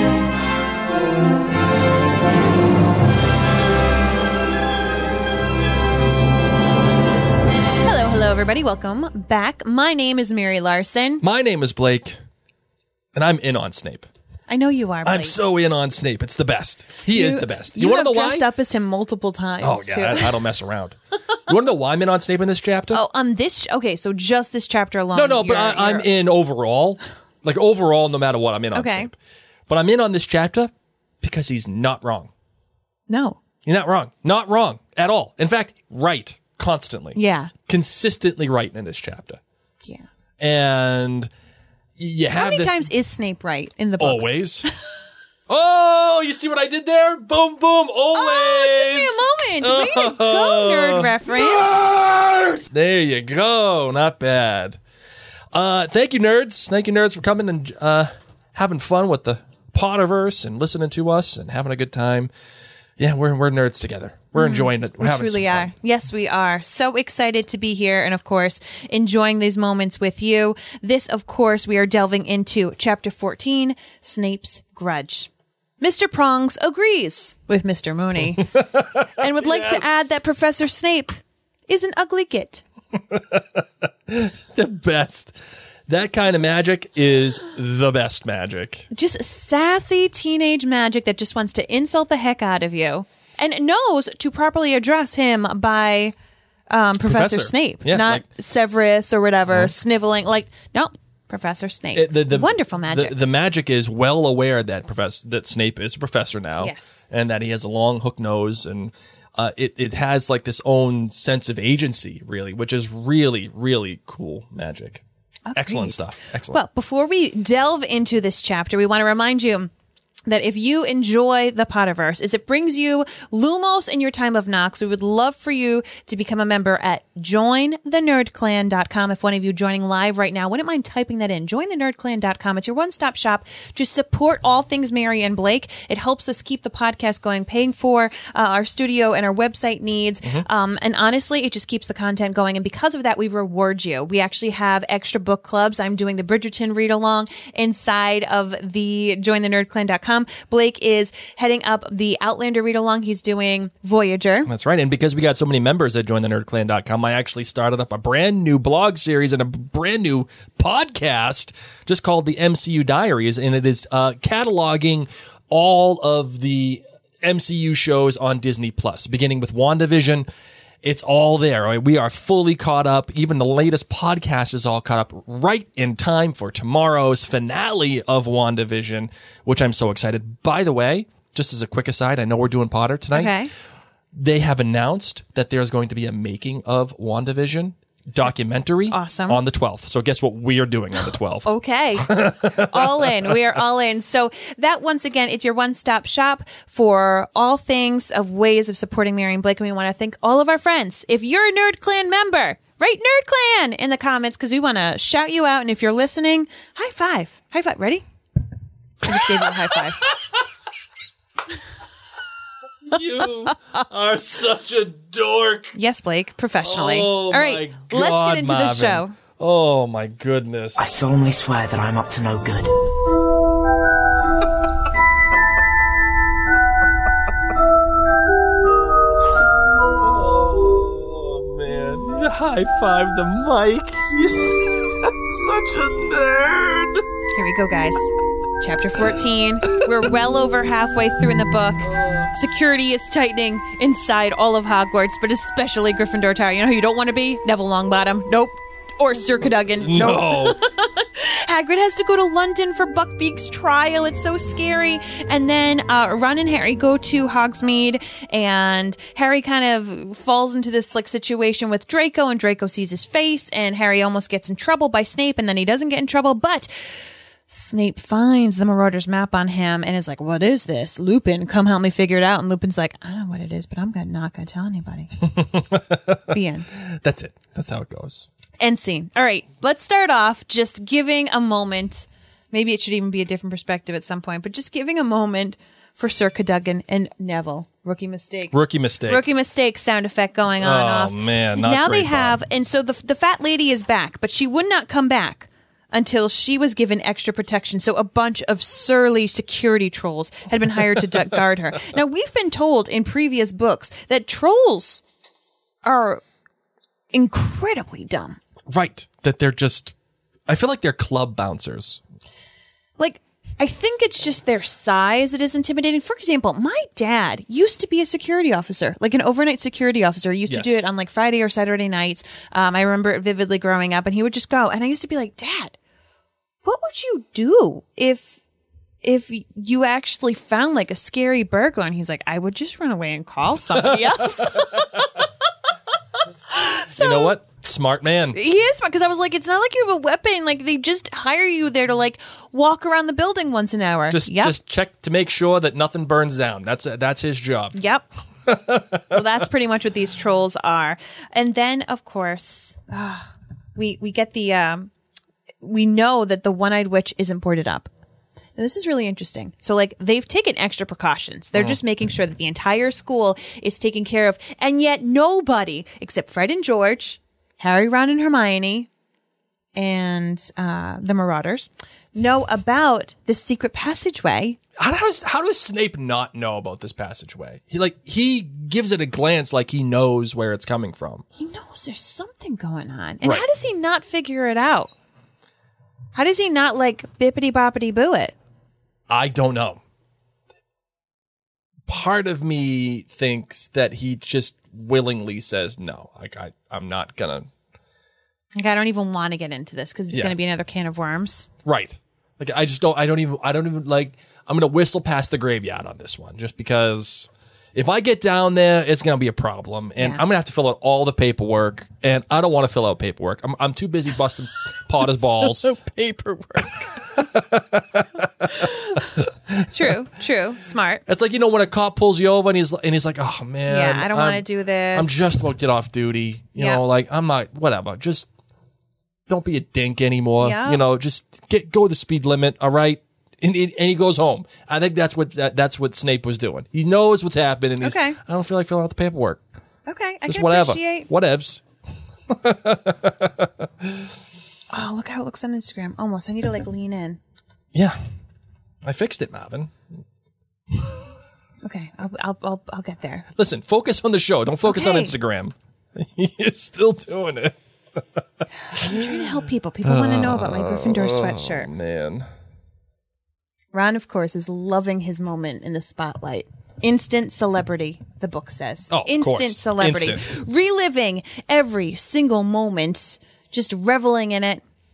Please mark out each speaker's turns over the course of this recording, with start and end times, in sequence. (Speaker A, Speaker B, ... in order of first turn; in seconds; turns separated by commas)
Speaker A: 7.8-11.2, Speaker B: 11.2-12.2, Speaker B: 13.1-14.1, Speaker A: 14.5-15.4, Speaker B: 15.0-18.4, Speaker A: 17.1-20.4, Speaker B: 19.6-23.0, Speaker A: 22.9-26.1, Speaker B: 25.1-29.1, Speaker A: 28.7-29.1, Speaker B: 29.7-32.3, Speaker A: 33.1-33.4, Speaker B: 33.6-39.4, Speaker A: 37.1-37.5, Speaker B: 40.4-41.3, Speaker B: 42.0-42.9, Speaker A: 42.3-44.9, Speaker B: 44.0-44.7, Speaker B: 45.5-54.8, Speaker A: 48.1-51.8, Speaker B: 55.5-62.3, Speaker B: 63.0-65.7, Speaker A: 64.3-78.5, Speaker B: 78.3-80.1, Speaker A: 79.2-82.6, Speaker B: 83.1-88.8, Speaker A: 88.9-96.1, Speaker A: 96.7-103.1, Speaker B: 97.0-98.2, Speaker B: 101.9-115.0, Speaker A: 106.6-107.0, Speaker A: 115.5-119.7, Speaker B: 115.5-116.6, Speaker A: 120.3-154.5, Speaker B: 154.4-170.3, Speaker B: 170.8-183.3, Speaker A: 183.1-183.5, Speaker B: 184.1-193.4, Speaker A: 188.9-189.4, Speaker A: 191.4-208.0, Speaker A: 209.0-210.1, Speaker B: 209.1-210.4, Speaker B: 212.8-215.7, Speaker A: 215.7-219.2, Speaker B: 216.6-220.9, Speaker C: 220.8-222.7, Speaker B: 230.0-237.0, Speaker A: 237.3-275.3, Speaker B: 241.8-242.3, Speaker B: 249.8-250.6, Speaker B: 275.2-278.3, Speaker A: 276.3-276.7, Speaker A: 278.6-288.5, Speaker B: 288.5-289.2, Speaker A: 289.1-305.0, Speaker B: 290.6-292.4, Speaker A: 305.8-306.2, Speaker A: 307.1-308.4, Speaker B: 308.7-309.9, Speaker B: 310.5-312.0, Speaker A: 313.0-325.8, Speaker B: 320.5-320.8, Speaker A: 326.6-328.4, Speaker A: 329.0-335.2, Speaker B: 333.8-335.0, Speaker A: 336.5-337.3, Speaker B: 336.9-338.4, Speaker A: 338.3-344.6, Speaker B: 344.1-347.8, Speaker A: 347.7-348.1, Speaker B: 348.4-349.2, Speaker A: 349.1-354.9, Speaker A: 355.6-357.9, Speaker A: 358.6-368.9, Speaker A: 369.8-374.6, Speaker B: 374.8-381.2, Speaker A: 381.4-384.9, Speaker A: 386.1-388.4, Speaker B: 389.1-389.8, Speaker B: 391.9-397.5, Speaker A: 398.6-401.5, Speaker B: 400.1-400.4, Speaker B: 401.6-415.7, Speaker A: 415.4-417.2, Speaker B: 417.1-419.9, Speaker A: 418.5-421.0, Speaker B: 421.1-428.3, Speaker A: 423.7-425.3, Speaker A: 426.6-426.8, Speaker B: 429.3-439.4, Speaker A: 430.4-430.8, Speaker A: 437.8-438.2, Speaker A: 439.9-441.1, Speaker B: 440.2-441.6, Speaker B: 442.3-444.1, Speaker A: 444.7-447.2, Speaker B: 447.7-448.1, Speaker B: 448.8-449.9, Speaker B: 450.7-451.0, Speaker A: 451.6-453.2, Speaker B: 453.4-458.2, Speaker A: 454.6-455.1, Speaker A: 458.7-461.7, Speaker B: 458.8-462.3, Speaker A: 463.7-474.6, Speaker B: 468.9-470.3